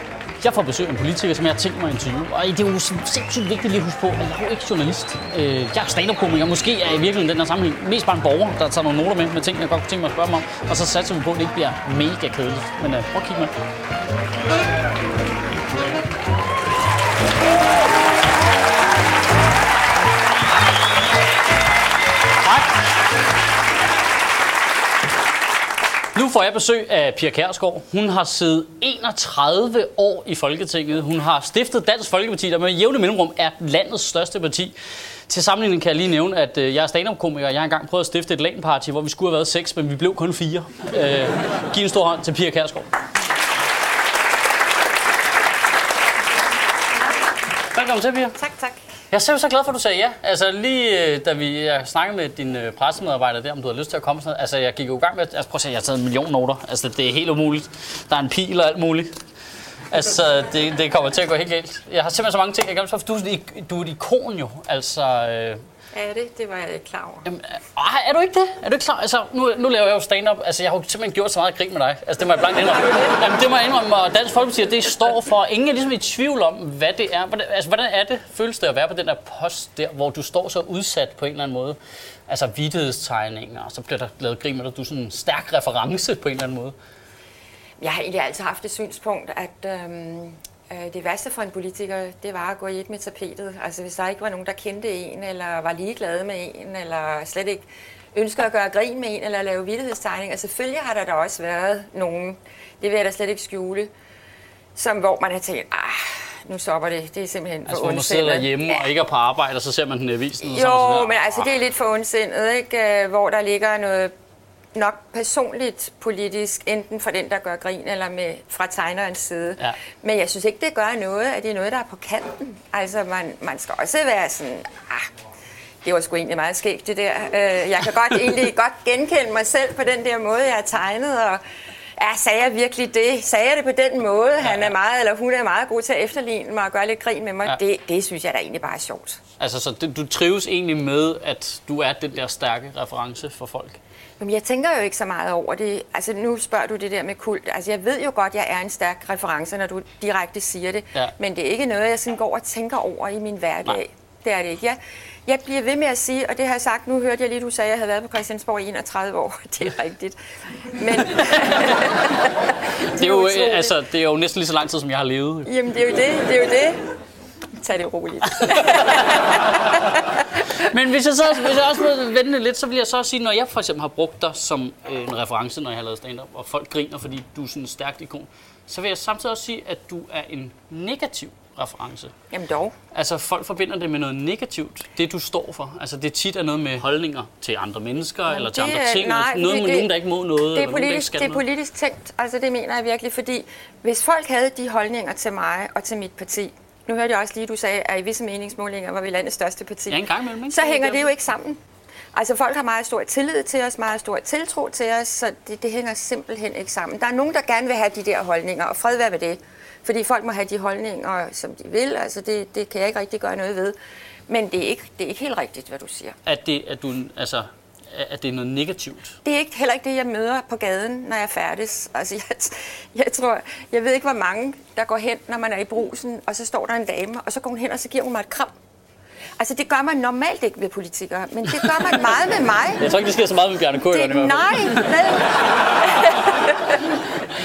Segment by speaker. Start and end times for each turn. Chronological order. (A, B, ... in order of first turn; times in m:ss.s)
0:00.4-0:13.5 A
0:22.4-0:22.8 A
0:26.1-0:34.7 A
0:35.3-0:43.0 A
0:47.7-0:48.4 A
0:48.3-0:48.8 B
0:49.1-0:59.2 A
0:59.9-1:05.6 A
1:05.9-1:07.2 B
1:07.2-1:26.7 A
1:27.8-1:43.9 B
1:44.7-1:48.8 B
1:47.6-1:51.5 A
1:50.4-1:54.1 B
1:54.7-2:05.1 B
2:05.8-2:11.4 B
2:12.0-2:19.2 B
2:14.4-2:14.7 A
2:19.4-2:23.8 A
2:24.2-2:43.8 B
2:41.0-2:41.9 A
2:42.8-2:45.5 A
2:45.4-2:46.8 B
2:47.6-2:50.6 B
2:48.3-3:02.1 A
3:02.3-3:02.7 B
3:02.9-3:11.4 A
3:08.3-3:21.6 B
3:19.9-3:21.1 A
3:22.1-3:33.8 B
3:34.3-3:36.2 B
3:36.2-3:39.2 A
3:39.2-3:48.5 B
3:49.4-3:52.8 B
3:51.5-3:52.0 A
3:52.8-3:55.0 A
3:53.8-3:57.0 B